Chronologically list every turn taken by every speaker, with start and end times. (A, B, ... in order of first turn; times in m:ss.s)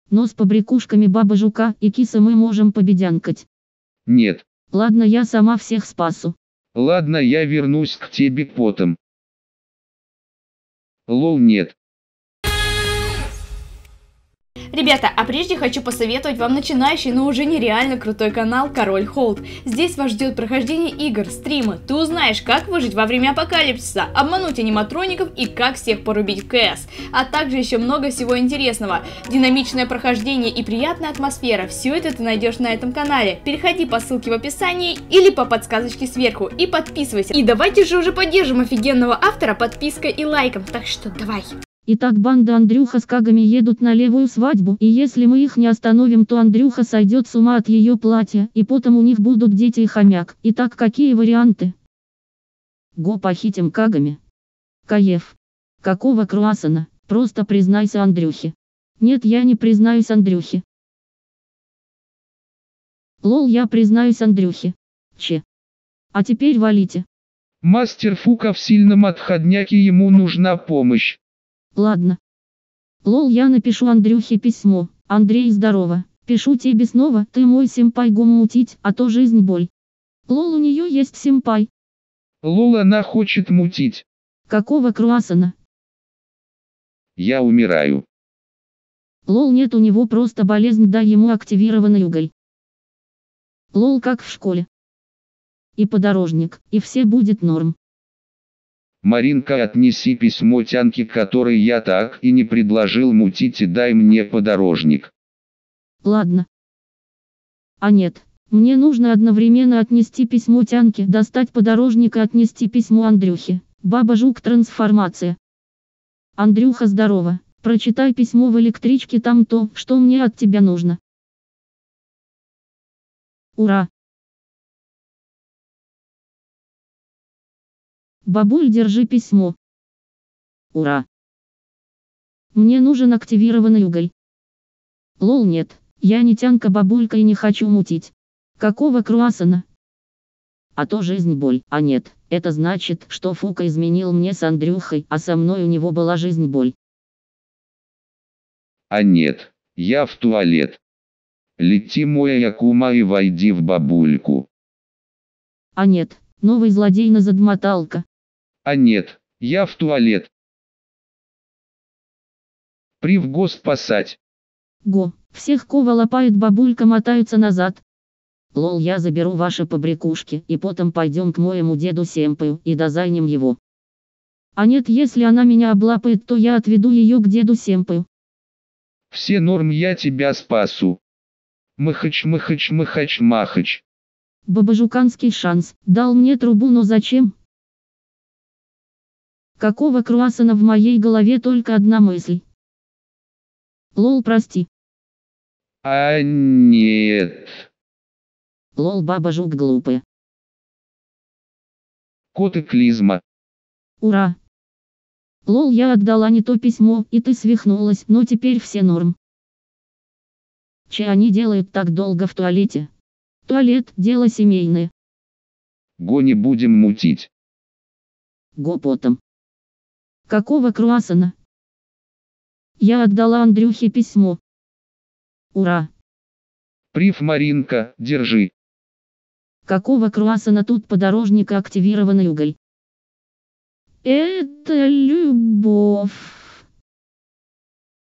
0:00.1-0:03.5 A
0:04.1-0:04.4 B
0:04.7-0:06.4 A
0:06.8-0:09.0 B
0:11.1-0:11.8 B
0:14.7-0:41.5 C
0:41.9-0:51.8 A
0:53.0-0:54.2 A
0:54.9-1:00.6 A
1:03.2-1:05.4 A
1:06.1-1:07.1 A
1:07.6-1:11.2 B
1:11.8-1:12.2 A
1:13.0-1:19.7 A
1:20.3-1:21.7 A
1:22.4-1:24.0 B
1:24.5-1:25.6 A
1:27.2-1:28.0 B
1:29.3-1:32.3 A
1:33.7-1:34.7 A
1:35.8-1:37.8 A
1:39.0-1:45.1 B
1:46.0-1:46.5 A
1:47.8-1:55.4 A
1:56.4-2:01.0 A
2:03.6-2:03.9 A
2:08.2-2:09.6 A
2:10.7-2:11.0 A
2:12.5-2:14.1 A
2:15.2-2:19.6 A
2:20.8-2:26.8 A
2:28.9-2:30.8 B
2:31.6-2:34.5 B
2:35.8-2:38.0 A
2:38.6-2:40.3 B
2:43.0-2:44.2 B
2:44.8-2:47.8 A
2:48.5-2:53.6 A
2:54.6-2:58.1 A
2:59.1-3:01.0 B
3:01.8-3:03.8 B
3:04.5-3:07.3 A
3:09.6-3:12.4 A
3:14.0-3:14.7 A
3:15.8-3:17.7 B
3:18.8-3:20.0 A
3:22.3-3:23.2 B
3:24.0-3:24.4 A
3:25.5-3:29.2 A
3:30.9-3:32.9 A
3:33.5-3:34.9 A
3:36.0-3:37.3 B
3:38.6-3:39.2 A
3:40.3-3:41.4 A
3:42.8-3:44.4 A
3:45.5-3:45.9 A
3:46.9-3:48.5 B
3:49.7-3:52.6 A
3:54.0-3:56.6 A